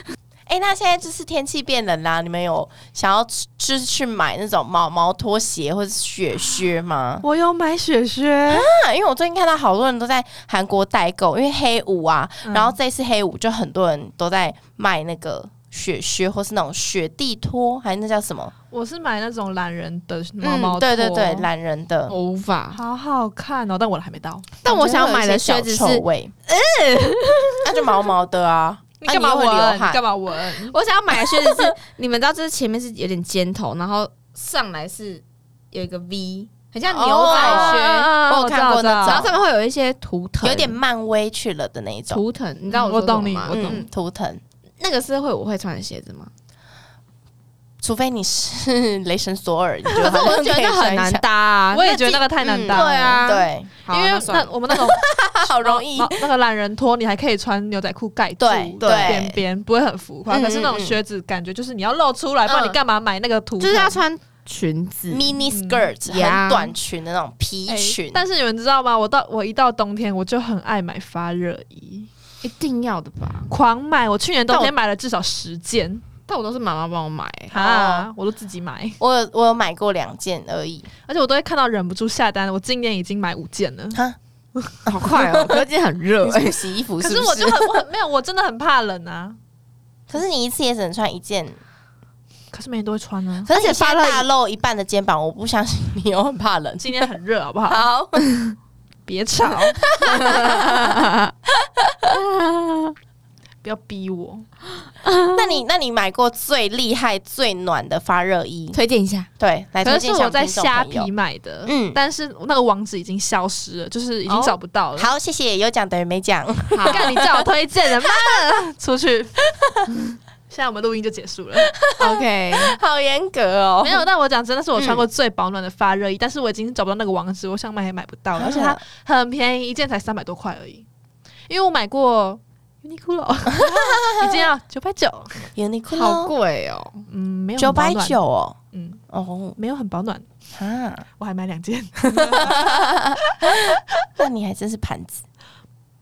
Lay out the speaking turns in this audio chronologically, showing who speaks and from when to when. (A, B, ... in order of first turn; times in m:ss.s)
0:00.5-0:07.2 A
0:07.2-0:08.7 B
0:08.5-0:18.5 A
0:12.4-0:12.8 B
0:18.7-0:21.5 B
0:20.4-0:20.7 C
0:20.5-0:22.1 A
0:22.1-0:22.8 C
0:22.7-0:24.5 B
0:24.6-0:28.0 C
0:24.6-0:26.3 A
0:27.6-0:30.0 A
0:29.0-0:30.8 B
0:30.7-0:38.2 C
0:31.3-0:31.7 A
0:36.9-0:39.3 A
0:37.2-0:39.2 B
0:39.0-0:40.8 C
0:40.4-0:42.2 A
0:42.1-0:43.9 C
0:42.7-0:43.8 B
0:43.5-0:44.4 A
0:44.8-0:46.3 C
0:47.8-0:51.2 A
0:49.9-0:51.9 C
0:51.7-0:53.2 B
0:51.8-0:53.7 A
0:52.7-0:54.5 C
0:53.9-1:04.0 B
0:54.7-0:56.2 A
0:58.4-0:59.3 A
0:58.8-0:59.4 C
1:00.3-1:01.0 A
1:02.4-1:02.8 C
1:03.6-1:05.4 C
1:05.1-1:08.2 A
1:05.5-1:05.9 B
1:06.0-1:06.8 C
1:07.7-1:12.1 B
1:12.4-1:13.5 C
1:13.5-1:16.0 B
1:16.3-1:17.5 C
1:17.5-1:19.0 B
1:17.5-1:18.1 A
1:19.0-1:20.9 A
1:21.0-1:24.0 B
1:24.8-1:26.6 C
1:25.1-1:25.6 A
1:26.2-1:27.8 A
1:27.0-1:29.4 B
1:30.1-1:31.6 A
1:32.5-1:34.2 B
1:33.4-1:37.0 A
1:36.8-1:37.8 B
1:37.7-1:38.3 A
1:39.0-1:40.2 B
1:39.8-1:41.0 A
1:40.0-1:41.3 C
1:41.6-1:42.2 A
1:42.1-1:42.9 C
1:43.6-1:44.5 B
1:45.0-1:45.6 C
1:45.3-1:48.8 A
1:48.7-1:49.3 C
1:49.4-1:51.1 A
1:49.8-1:55.1 B
1:51.6-1:52.0 A
1:54.3-1:54.5 C
1:55.0-1:57.4 A
1:56.7-1:57.0 C
1:56.9-1:59.4 B
1:58.1-1:58.3 A
2:00.5-2:01.7 B
2:01.7-2:04.0 A
2:02.0-2:02.8 C
2:03.8-2:10.8 B
2:04.8-2:05.0 A
2:08.4-2:08.8 A
2:11.5-2:15.5 B
2:13.7-2:14.1 A
2:15.6-2:16.3 A
2:15.9-2:17.0 C
2:17.1-2:18.2 B
2:17.6-2:18.6 A
2:18.7-2:19.0 B
2:19.1-2:19.6 A
2:19.6-2:20.2 B
2:20.5-2:21.0 A
2:21.2-2:24.0 B
2:22.1-2:25.2 A